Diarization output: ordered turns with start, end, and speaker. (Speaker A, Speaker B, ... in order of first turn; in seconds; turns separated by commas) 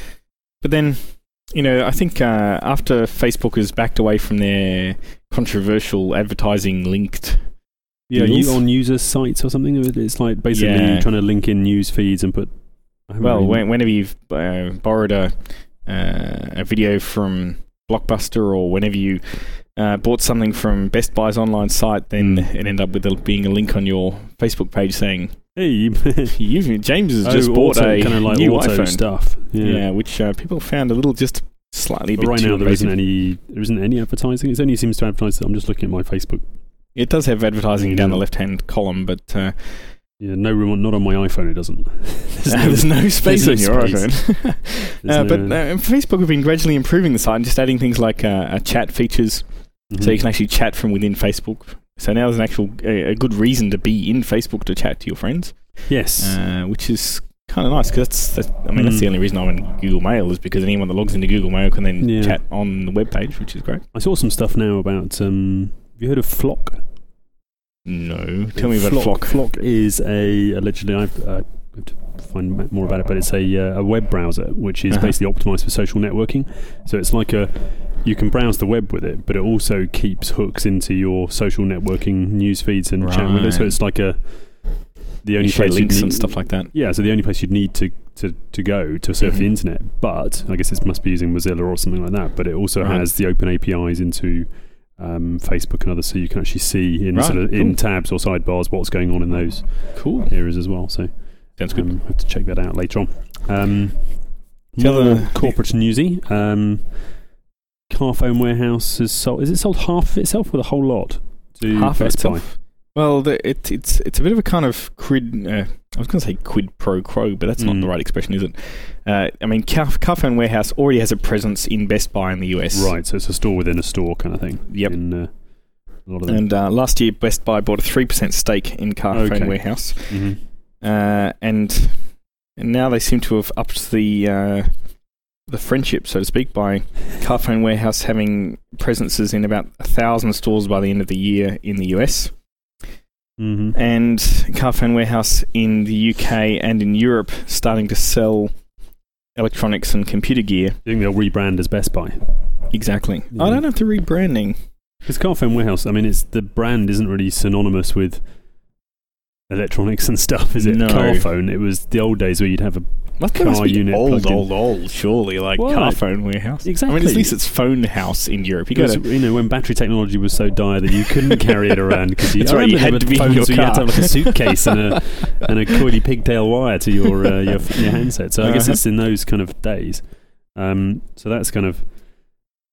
Speaker A: 0.6-8.6, Speaker B: 8.1-13.6, Speaker A: 10.5-11.1, Speaker A: 13.2-25.6, Speaker B: 22.2-22.5, Speaker B: 25.5-26.4, Speaker A: 26.3-33.0, Speaker B: 27.2-29.8, Speaker B: 32.1-36.5, Speaker A: 36.9-40.0, Speaker B: 37.8-38.3, Speaker B: 40.2-45.6, Speaker A: 42.5-63.9, Speaker B: 49.9-50.2, Speaker B: 55.9-56.4, Speaker B: 58.7-59.1, Speaker B: 62.0-62.4, Speaker B: 63.9-66.9, Speaker A: 67.8-69.4, Speaker B: 68.5-107.3, Speaker A: 74.9-75.2, Speaker A: 83.0-83.8, Speaker A: 85.4-86.7, Speaker A: 89.2-89.5, Speaker A: 92.8-93.1, Speaker A: 97.1-97.8, Speaker A: 99.9-100.3, Speaker A: 101.6-101.9, Speaker A: 104.8-105.6, Speaker B: 107.9-112.6, Speaker A: 111.7-123.0, Speaker B: 117.6-117.9, Speaker B: 122.7-126.4, Speaker A: 124.7-125.0, Speaker A: 126.2-142.6, Speaker B: 129.1-130.4, Speaker B: 143.4-143.8, Speaker A: 143.7-148.7, Speaker A: 149.3-150.8, Speaker B: 150.8-152.7, Speaker A: 152.7-154.6, Speaker B: 153.3-153.6, Speaker B: 155.0-158.4, Speaker B: 159.5-164.6, Speaker A: 160.6-161.3, Speaker A: 163.2-169.1, Speaker B: 165.5-167.3, Speaker B: 168.7-182.5, Speaker A: 172.4-174.7, Speaker A: 178.4-178.8